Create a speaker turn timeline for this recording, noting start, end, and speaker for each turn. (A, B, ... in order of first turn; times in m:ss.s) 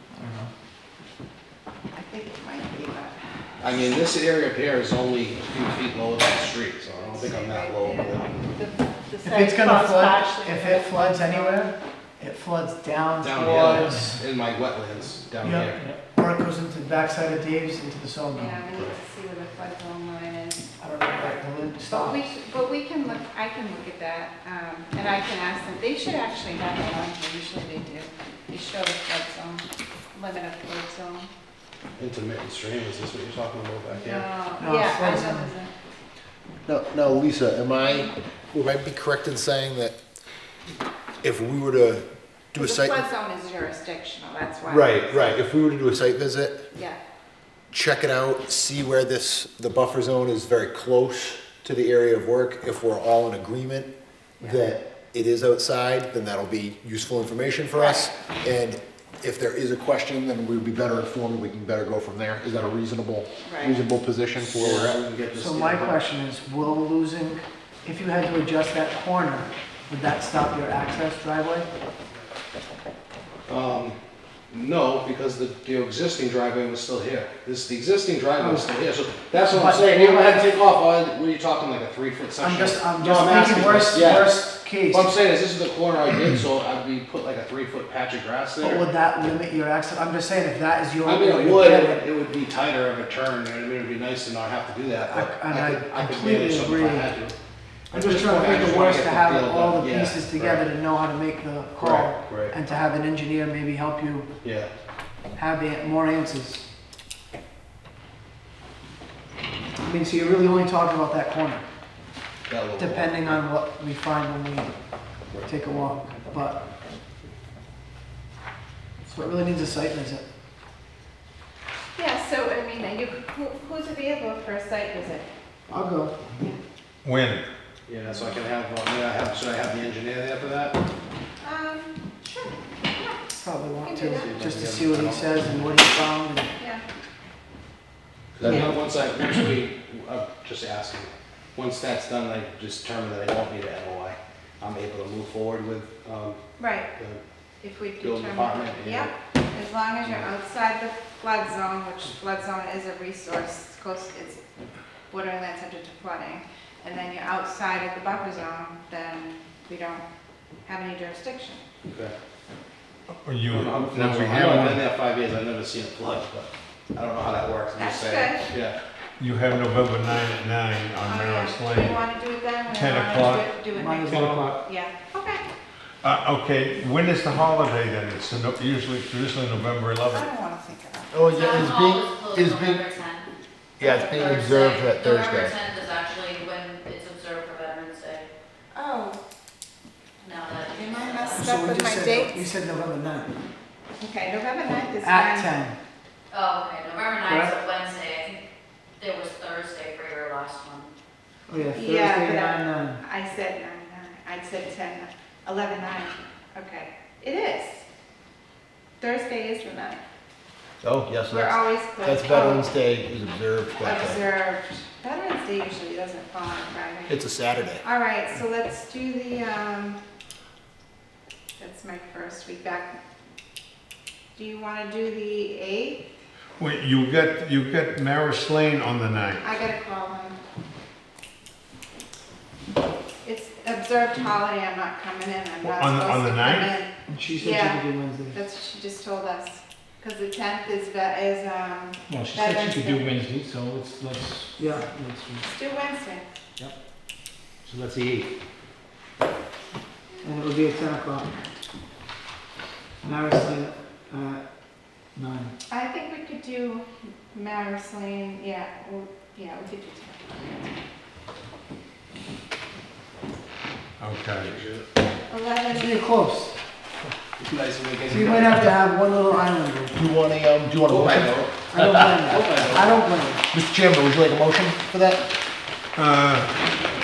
0:00.2-0:00.5 A
0:01.9-0:03.2 B
0:03.6-0:08.5 C
0:06.9-0:11.6 B
0:09.2-0:14.2 A
0:13.2-0:15.8 C
0:15.4-0:18.8 A
0:18.4-0:31.3 B
0:20.8-0:22.3 A
0:32.0-0:34.3 C
0:33.9-0:35.7 B
0:34.6-0:35.5 A
0:36.7-0:40.0 D
0:41.2-0:43.0 D
0:42.6-0:45.3 B
0:44.7-0:46.6 D
0:46.7-0:47.0 B
0:47.7-0:53.9 D
0:54.4-1:05.0 D
0:57.8-0:58.1 B
1:03.4-1:03.8 B
1:04.4-1:06.0 C
1:05.3-1:11.7 A
1:13.5-1:14.0 C
1:14.5-1:28.8 C
1:18.4-1:20.5 A
1:22.4-1:25.2 A
1:28.6-1:32.0 A
1:31.0-1:37.4 C
1:35.1-1:37.2 A
1:37.9-1:40.7 C
1:37.9-1:44.3 A
1:41.8-1:42.6 C
1:44.4-1:44.7 C
1:45.4-1:46.6 A
1:49.8-1:51.6 A
1:52.5-1:53.3 C
1:52.8-1:54.7 A
1:55.4-1:56.6 A
1:59.0-2:00.2 A
2:02.0-2:05.3 B
2:05.7-2:06.2 A
2:07.0-2:07.4 E
2:07.9-2:10.8 C
2:08.1-2:08.4 B
2:11.4-2:13.3 B
2:13.3-2:16.5 A
2:13.8-2:14.3 B
2:14.1-2:15.5 C
2:16.6-2:16.8 B
2:18.4-2:26.4 C
2:18.4-2:18.7 D
2:26.6-2:26.9 B
2:27.6-2:34.4 B
2:28.0-2:29.1 C
2:30.0-2:30.3 C
2:35.1-2:40.0 B
2:40.7-2:41.6 B
2:43.2-2:44.8 E
2:43.5-2:48.8 C
2:47.8-2:48.4 B
2:49.2-2:52.0 E
2:51.0-2:55.4 B
2:52.7-2:53.6 E
2:53.7-2:54.6 A
2:54.1-2:54.5 E
2:56.0-3:00.3 E
3:00.1-3:01.2 B
3:01.1-3:02.8 D
3:01.3-3:03.3 F
3:03.8-3:05.6 D
3:04.0-3:08.3 F
3:08.7-3:09.2 B
3:10.2-3:11.5 F
3:10.7-3:12.5 B
3:11.3-3:13.3 A
3:14.0-3:15.6 B
3:15.0-3:15.8 A
3:16.3-3:18.4 F
3:17.2-3:17.6 A
3:19.0-3:20.9 F
3:21.5-3:23.0 A
3:21.8-3:27.8 B
3:29.0-3:30.0 B
3:30.8-3:34.2 D
3:31.3-3:32.7 B
3:33.8-3:37.2 B
3:37.1-3:37.8 D
3:37.8-3:40.0 B
3:41.6-3:43.0 B
3:44.4-3:46.0 B
3:46.6-3:49.4 E
3:49.4-3:50.4 B
3:53.2-3:57.8 B
3:55.6-3:56.8 E
3:57.1-3:58.4 A
3:58.3-4:03.1 B
4:02.1-4:04.4 G
4:04.6-4:05.0 A
4:05.5-4:06.2 B
4:07.7-4:08.3 C
4:10.2-4:11.3 A
4:13.0-4:14.4 A
4:15.2-4:15.6 A
4:15.7-4:20.8 B
4:24.0-4:24.6 E
4:24.4-4:24.9 C
4:25.3-4:26.0 B
4:25.7-4:26.6 A
4:27.4-4:28.6 C
4:28.0-4:30.0 A
4:29.9-4:32.1 D
4:30.9-4:33.0 C
4:31.7-4:33.4 A
4:33.5-4:35.3 D
4:36.0-4:36.5 E